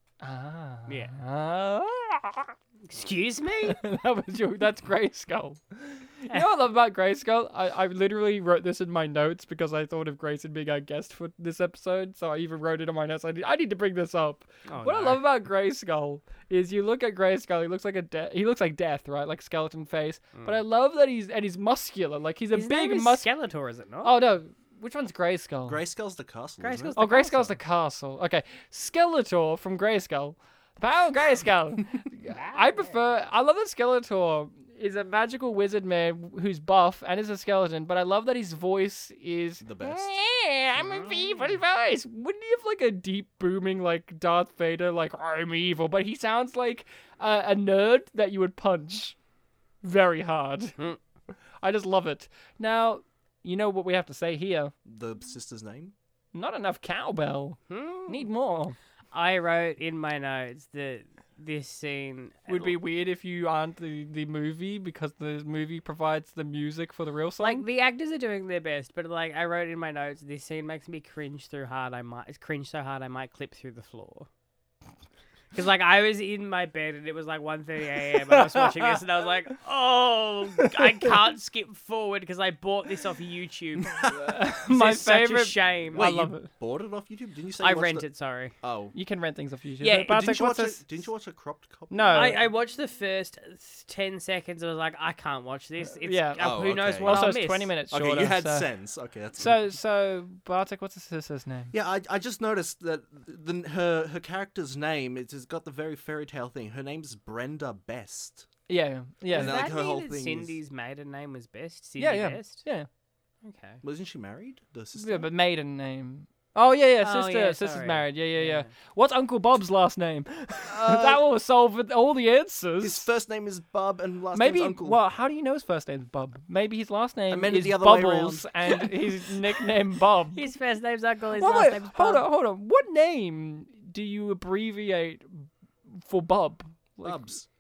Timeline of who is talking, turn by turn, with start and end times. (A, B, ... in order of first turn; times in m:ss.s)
0:00.2-0:02.5 A
0:00.9-0:01.2 B
0:02.9-0:03.8 B
0:03.7-0:23.3 A
0:14.7-0:15.2 B
0:22.5-0:24.1 B
0:24.0-0:25.8 A
0:25.7-0:27.0 C
0:26.6-0:27.6 B
0:27.0-0:49.2 A
0:32.3-0:33.0 B
0:39.6-0:40.1 C
0:40.8-0:41.6 B
0:49.8-0:50.8 A
0:51.6-0:54.7 A
0:54.8-0:55.9 C
0:56.3-0:58.8 A
0:57.7-0:58.3 B
0:59.1-1:02.8 B
1:02.5-1:07.7 A
1:07.4-1:14.3 B
1:15.5-1:26.1 B
1:18.3-1:19.0 A
1:20.6-1:21.1 A
1:24.0-1:26.5 A
1:25.9-1:28.1 C
1:27.6-1:28.6 B
1:28.6-1:29.0 C
1:28.9-1:30.9 A
1:29.8-1:30.1 B
1:29.8-1:32.4 C
1:31.9-1:32.4 A
1:32.1-1:37.7 B
1:36.0-1:38.7 A
1:36.4-1:37.3 C
1:37.9-1:39.6 C
1:39.4-1:41.7 A
1:41.7-1:48.5 C
1:48.7-1:49.6 A
1:49.3-1:52.6 B
1:49.3-1:50.6 C
1:52.0-1:52.9 A
1:53.4-1:53.8 B
1:53.8-1:55.3 C
1:55.0-2:03.1 A
1:57.0-1:58.7 B
2:00.7-2:01.3 C
2:02.8-2:05.0 C
2:04.3-2:10.4 A
2:07.3-2:08.5 C
2:08.8-2:09.6 B
2:10.3-2:12.2 B
2:11.4-2:17.3 A
2:17.0-2:17.5 C